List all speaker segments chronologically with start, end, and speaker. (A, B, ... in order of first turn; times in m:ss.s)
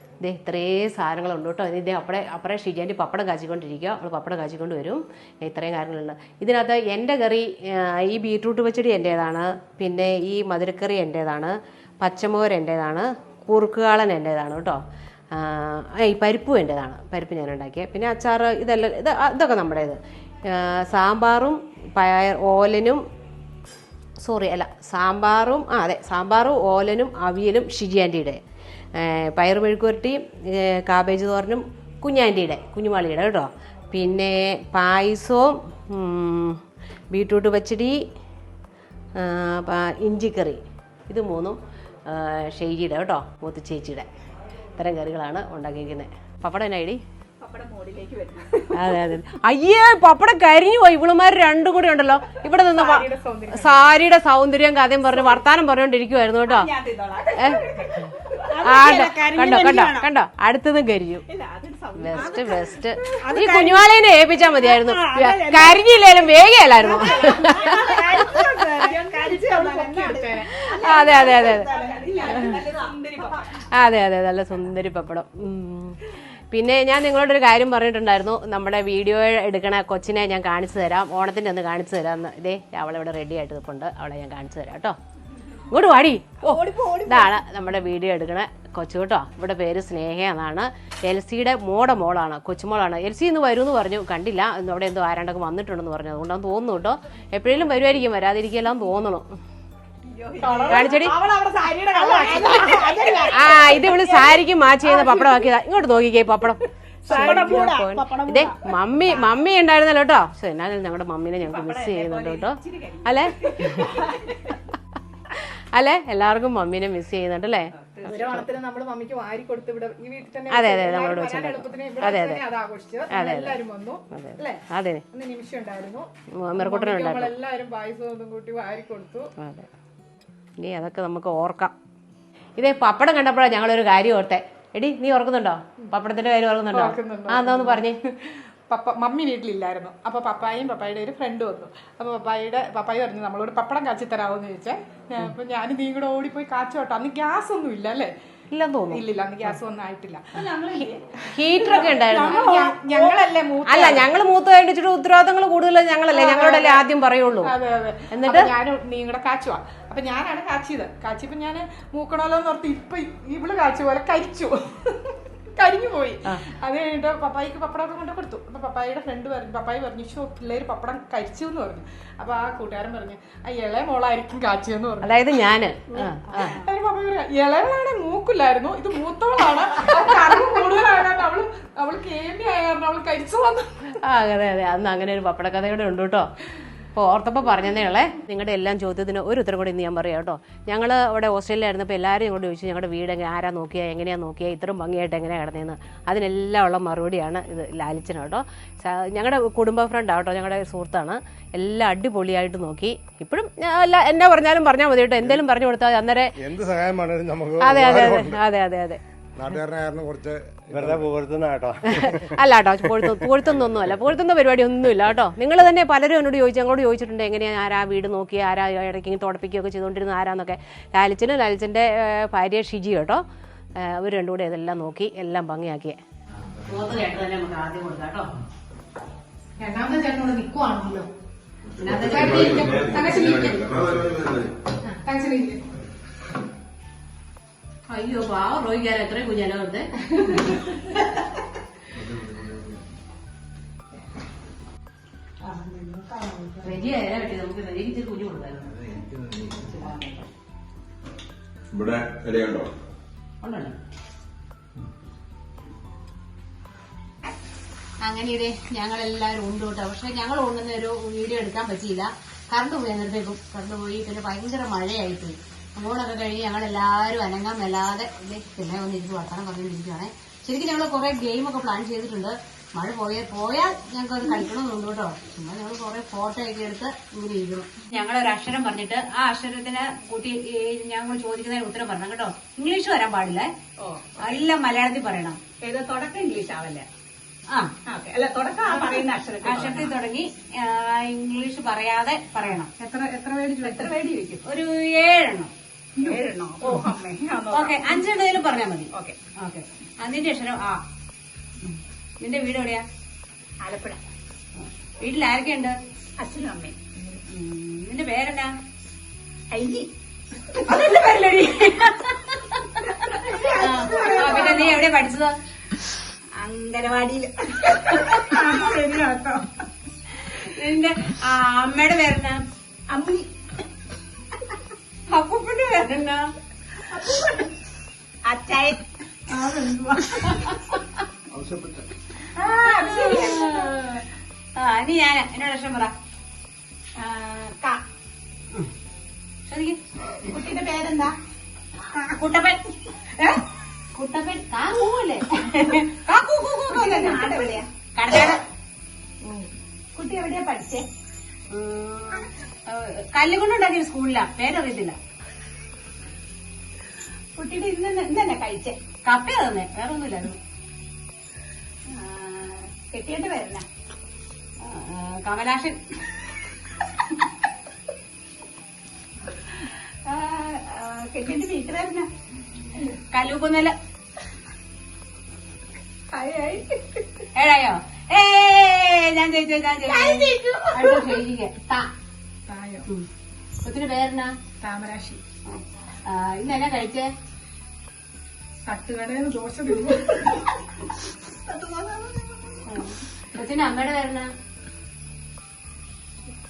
0:00.2-0:14.8 A
0:15.3-0:23.0 A
0:24.2-0:28.4 A
0:29.0-0:38.0 A
0:39.2-0:44.0 A
0:44.8-0:47.0 A
0:47.4-0:49.0 B
0:48.7-0:56.7 A
0:52.7-0:53.9 C
0:56.4-1:00.1 B
0:58.6-1:01.2 A
1:01.3-1:03.4 B
1:02.0-1:08.2 A
1:03.0-1:03.8 C
1:05.0-1:13.5 B
1:06.8-1:10.5 C
1:10.8-1:11.7 A
1:13.7-1:25.0 A
1:25.7-1:39.2 A
1:26.4-1:27.3 B
1:40.0-1:41.1 B
1:40.4-1:43.3 C
1:40.7-1:41.1 A
1:41.9-1:44.2 B
1:43.3-1:53.9 A
1:47.1-1:49.3 B
1:47.1-1:48.4 C
1:51.4-1:54.6 B
1:55.3-1:57.7 A
1:57.8-1:58.3 B
1:58.1-2:04.6 C
2:00.5-2:02.4 A
2:03.1-2:03.6 A
2:04.1-2:05.0 A
2:05.1-2:09.3 C
2:06.3-2:07.3 A
2:09.4-2:09.7 A
2:10.6-2:11.7 A
2:12.6-2:18.0 A
2:16.7-2:28.1 C
2:28.5-2:29.5 A
2:28.9-2:30.3 C
2:30.4-2:33.4 B
2:31.3-2:32.5 A
2:32.1-2:34.1 C
2:33.6-2:37.5 A
2:36.1-2:36.8 C
2:37.4-2:55.3 C
2:38.1-2:38.5 A
2:55.0-2:56.6 A
2:56.0-3:04.0 C
2:56.3-2:56.6 B
3:04.0-3:06.3 A
3:06.9-3:26.3 A
3:26.4-3:28.4 D
3:27.6-3:29.0 A
3:29.4-3:31.1 D
3:30.8-3:31.7 E
3:31.9-3:43.2 A
3:31.9-3:32.2 D
3:43.8-3:46.0 A
3:46.6-3:48.3 A
3:49.6-3:51.1 C
3:51.8-3:52.4 A
3:51.8-3:53.7 C
3:51.9-3:54.4 E
3:55.0-3:55.6 C
3:57.9-4:00.9 A
4:06.6-4:10.3 A
4:13.4-4:13.8 A
4:18.0-4:43.5 A
4:43.8-4:44.4 B
4:44.2-4:45.4 A
4:45.6-4:46.8 B
4:47.8-4:49.9 B
4:49.4-4:52.7 A
4:52.4-4:53.9 C
4:53.6-4:54.4 B
4:54.4-4:55.5 A
4:56.0-4:56.8 C
4:56.0-4:58.0 B
4:57.5-5:00.8 A
4:58.9-4:59.2 B
5:02.2-5:02.8 A
5:03.6-5:04.0 B
5:04.6-5:05.7 A
5:06.2-5:06.8 B
5:07.3-5:08.5 A
5:09.5-5:09.9 B
5:10.7-5:12.6 A
5:10.7-5:11.7 B
5:12.8-5:14.8 B
5:13.4-5:15.4 A
5:16.4-5:19.4 B
5:18.3-5:18.6 C
5:20.3-5:22.4 A
5:22.9-5:23.3 B
5:25.1-5:26.3 A
5:26.9-5:27.5 B
5:28.2-5:28.8 B
5:29.3-5:30.2 C
5:31.3-5:31.8 D
5:32.4-5:34.0 A
5:32.5-5:33.6 B
5:34.6-5:35.9 A
5:37.0-5:37.8 B
5:39.5-5:39.8 A
5:40.2-5:41.1 B
5:41.9-5:42.6 A
5:43.9-5:47.4 A
5:46.6-5:47.7 B
5:47.9-5:48.4 A
5:49.9-5:50.8 B
5:51.5-5:55.0 A
5:57.4-5:58.8 B
5:59.0-6:00.4 A
6:01.9-6:03.6 B
6:04.6-6:05.8 A
6:10.0-6:12.1 B
6:13.0-6:13.7 A
6:16.1-6:17.0 B
6:17.4-6:21.9 A
6:19.8-6:21.1 B
6:22.5-6:22.9 C
6:23.6-6:24.3 A
6:24.6-6:25.2 C
6:25.5-6:27.1 A
6:28.6-6:30.3 C
6:31.4-6:32.6 B
6:32.7-6:34.3 A